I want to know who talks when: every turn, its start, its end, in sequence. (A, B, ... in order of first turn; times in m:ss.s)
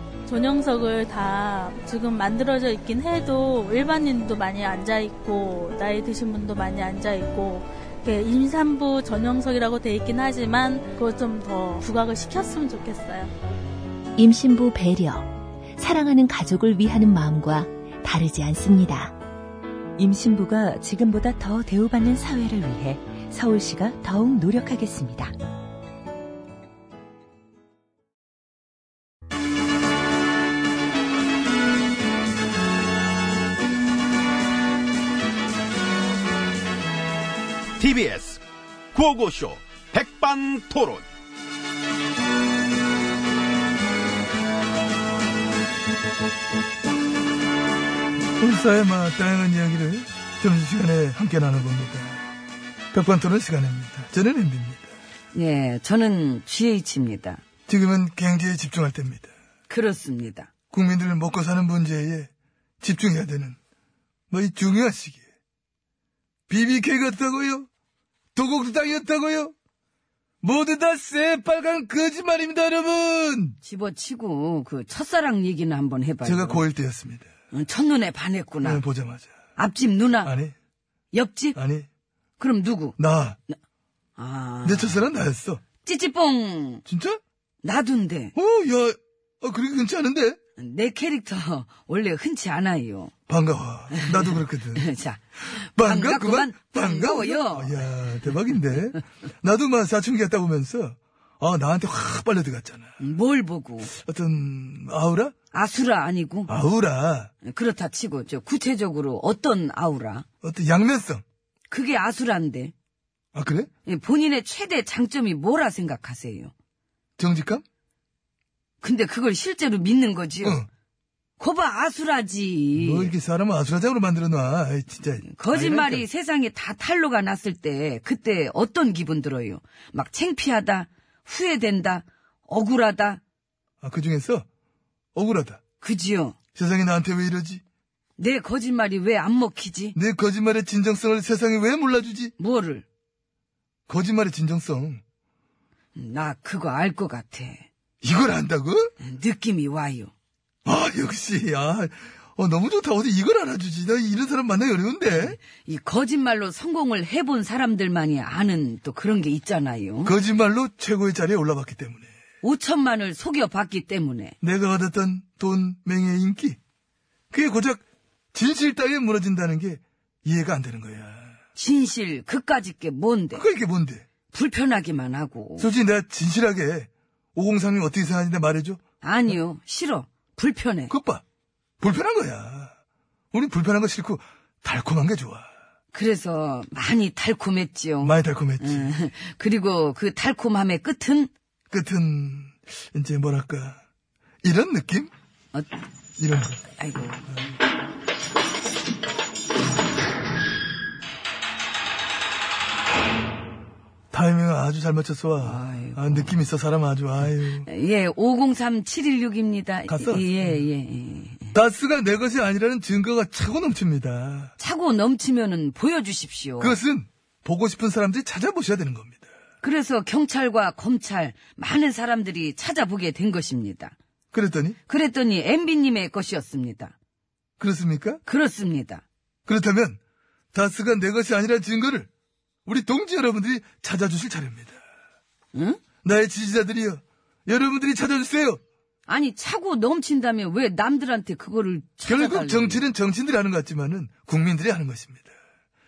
0:00.3-0:13.3 A
0:14.2-0:19.1 B
0:20.0-0:21.4 C
0:20.7-0:25.3 B
0:22.3-0:24.9 C
0:37.8-0:41.1 D
0:48.4-0:52.2 E
0:52.9-0:54.9 E
0:55.3-0:57.4 F
0:57.7-0:59.3 E
0:59.7-1:00.5 F
1:00.7-1:02.3 E
1:02.8-1:03.6 E
1:04.3-1:05.2 E
1:06.5-1:07.7 E
1:08.3-1:09.5 E
1:10.4-1:13.6 E
1:13.6-1:16.6 F
1:16.2-1:17.3 E
1:17.5-1:18.8 F
1:18.6-1:19.3 E
1:19.6-1:20.3 F
1:20.2-1:20.5 E
1:21.1-1:21.6 F
1:21.5-1:21.9 E
1:22.4-1:23.0 F
1:23.0-1:23.4 E
1:24.2-1:25.0 F
1:24.6-1:25.6 E
1:25.8-1:26.8 F
1:26.8-1:27.2 E
1:27.6-1:28.3 F
1:28.3-1:30.4 E
1:30.6-1:33.1 F
1:33.3-1:34.8 E
1:33.9-1:37.8 F
1:35.5-1:42.9 E
1:43.0-1:43.9 F
1:43.9-1:45.3 E
1:45.5-1:46.5 F
1:46.5-1:47.3 E
1:47.4-1:50.2 F
1:50.4-1:51.2 E
1:51.7-1:52.7 F
1:53.3-1:53.7 E
1:53.8-1:56.5 F
1:57.2-1:57.6 E
1:58.8-2:00.6 F
2:00.4-2:00.7 E
2:01.4-2:03.1 F
2:02.7-2:06.0 E
2:05.2-2:13.2 F
2:13.8-2:14.4 E
2:15.1-2:15.6 E
2:15.8-2:16.4 F
2:16.5-2:17.6 E
2:18.2-2:20.0 F
2:19.9-2:22.3 E
2:22.4-2:22.8 F
2:23.9-2:25.0 E
2:25.9-2:27.7 F
2:28.0-2:28.9 E
2:29.0-2:30.1 F
2:30.7-2:35.4 E
2:35.2-2:40.1 F
2:40.0-2:42.1 E
2:42.4-2:44.4 F
2:44.4-2:46.6 E
2:47.3-2:47.8 E
2:48.3-2:51.3 E
2:51.5-2:53.4 F
2:53.3-2:54.0 E
2:54.3-2:55.7 F
2:55.6-2:58.8 E
2:59.0-3:00.9 F
3:00.9-3:01.2 E
3:01.8-3:02.7 E
3:03.3-3:05.5 E
3:05.9-3:11.3 F
3:08.0-3:08.9 E
3:11.7-3:13.8 E
3:14.4-3:15.1 E
3:16.2-3:16.6 E
3:16.8-3:17.5 F
3:24.1-3:27.7 E
3:25.4-3:26.3 F
3:27.6-3:31.5 F
3:29.9-3:30.3 E
3:31.5-3:34.5 E
3:34.6-3:36.8 F
3:36.6-3:39.2 E
3:39.6-3:43.9 F
3:44.3-3:44.8 E
3:44.9-3:46.9 F
3:47.6-3:48.2 E
3:48.2-3:49.0 F
3:49.4-3:50.0 E
3:50.5-3:52.1 E
3:52.6-3:54.8 E
3:55.5-3:55.8 F
3:56.0-3:58.6 E
3:59.1-4:02.8 F
4:02.0-4:05.3 E